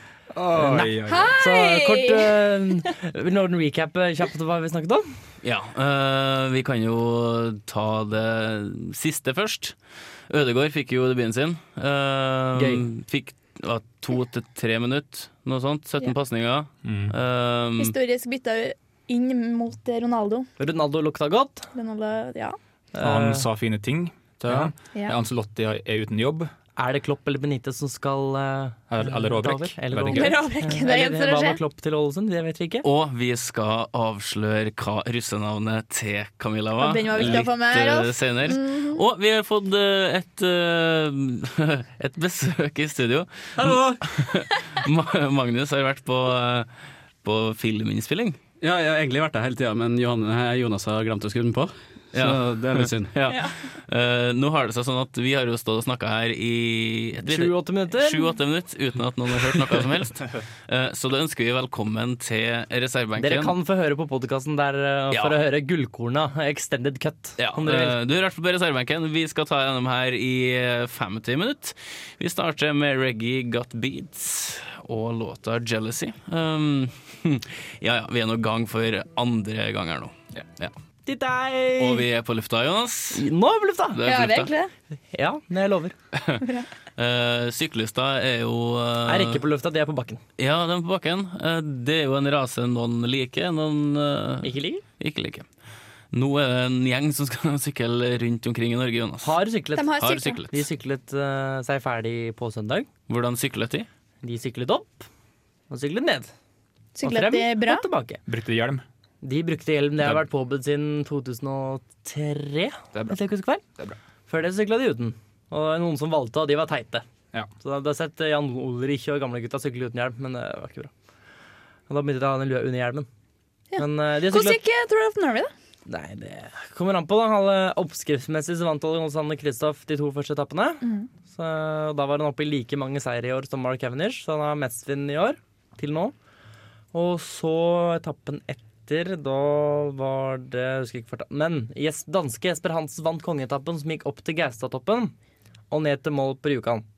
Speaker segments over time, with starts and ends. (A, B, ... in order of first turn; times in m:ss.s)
0:00.3-0:01.4 A
0:00.6-0:05.1 B
0:01.1-0:02.4 C
0:05.4-0:09.8 D
0:10.3-0:18.0 D
0:12.6-0:12.8 B
0:16.8-0:17.1 A
0:17.8-0:20.5 C
0:20.6-0:21.7 B
0:21.7-0:22.6 C
0:22.9-0:23.4 B
0:23.0-0:26.5 A
0:26.8-0:32.9 B
0:28.9-0:30.4 A
0:30.1-0:31.6 C
0:32.8-0:46.7 D
0:36.8-0:39.0 C
0:43.6-0:44.0 E
0:47.2-0:48.4 D
0:48.6-0:53.1 E
0:52.1-1:03.5 D
0:57.2-0:58.3 B
1:03.2-1:08.0 B
1:05.1-1:05.4 D
1:07.4-1:20.7 D
1:21.1-1:22.0 B
1:21.8-1:23.2 D
1:23.1-1:24.0 B
1:23.9-1:24.5 D
1:24.0-1:24.7 C
1:25.1-1:26.0 B
1:26.1-1:26.4 D
1:26.4-1:26.7 C
1:27.0-1:29.4 D
1:29.1-1:30.2 B
1:30.4-1:35.5 D
1:34.4-1:34.8 B
1:36.1-1:39.4 D
1:39.2-1:40.0 B
1:39.8-1:40.4 C
1:40.0-1:40.6 D
1:40.5-1:42.9 B
1:43.1-1:43.9 D
1:44.2-1:45.1 B
1:45.7-1:46.3 B
1:47.0-1:47.9 C
1:47.0-1:48.2 B
1:48.3-1:48.8 A
1:49.2-1:53.6 B
1:54.3-1:57.0 B
1:57.6-2:00.9 B
2:01.9-2:03.1 B
2:03.7-2:05.5 C
2:03.8-2:04.6 B
2:05.9-2:16.1 B
2:16.9-2:25.1 B
2:25.7-2:26.8 B